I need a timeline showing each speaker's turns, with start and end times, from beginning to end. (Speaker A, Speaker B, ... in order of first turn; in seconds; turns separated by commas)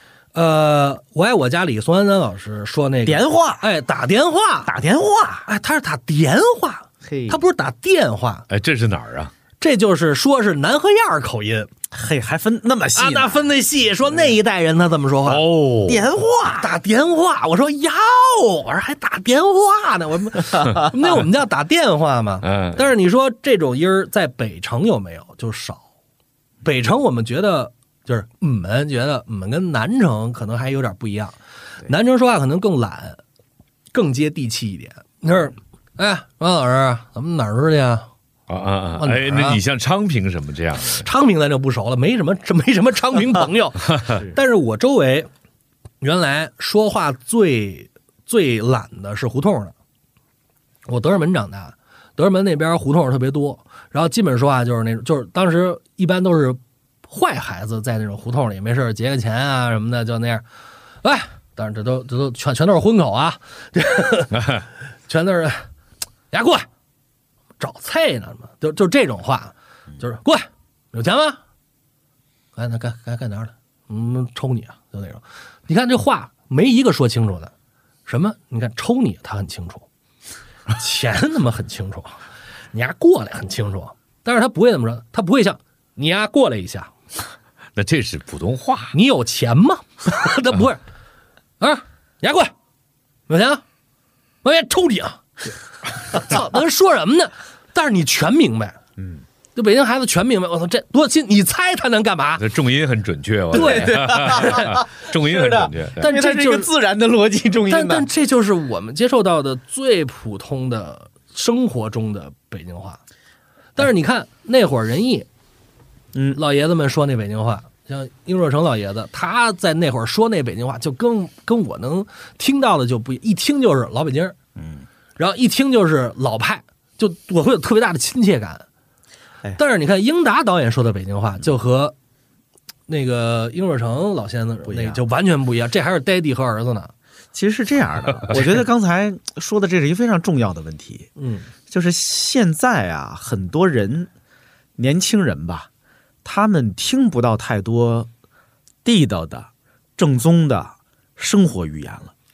Speaker A: 0.3-4.7, Speaker B: 3.0-3.6, Speaker B: 4.7-5.5, Speaker A: 5.5-8.5, Speaker B: 7.0-7.4, Speaker C: 8.5-9.3, Speaker A: 9.6-11.7, Speaker B: 11.9-13.5, Speaker A: 12.9-15.4, Speaker C: 15.2-16.1, Speaker B: 15.8-16.7, Speaker A: 16.6-25.8, Speaker C: 22.4-22.9, Speaker A: 26.6-31.4, Speaker A: 31.9-33.2, Speaker A: 33.9-38.1, Speaker C: 38.5-41.1, Speaker A: 39.0-39.6, Speaker A: 41.0-45.3, Speaker A: 46.0-49.7, Speaker A: 50.9-60.5, Speaker A: 61.0-64.3, Speaker C: 64.3-64.6, Speaker A: 65.1-65.7, Speaker A: 66.3-66.7, Speaker A: 67.6-71.4, Speaker A: 72.6-77.5, Speaker A: 78.1-79.8, Speaker A: 80.8-82.2, Speaker A: 82.7-86.9, Speaker C: 87.8-88.9, Speaker A: 88.9-90.8, Speaker A: 91.6-92.5, Speaker A: 93.3-93.6, Speaker A: 94.4-95.2, Speaker A: 96.1-98.8, Speaker B: 99.0-99.2, Speaker A: 99.6-102.5, Speaker C: 102.4-106.1, Speaker A: 103.5-104.7, Speaker B: 103.5-108.1, Speaker A: 106.0-106.7, Speaker A: 107.7-113.0, Speaker A: 113.8-115.3, Speaker B: 116.1-116.4, Speaker A: 116.3-124.4, Speaker B: 124.6-124.9, Speaker A: 125.2-128.7, Speaker A: 129.6-131.9, Speaker A: 132.9-136.9, Speaker B: 134.7-135.0, Speaker B: 137.3-141.1, Speaker A: 141.2-141.5, Speaker B: 141.7-144.1, Speaker B: 144.8-145.7, Speaker B: 146.2-148.1, Speaker B: 148.8-152.1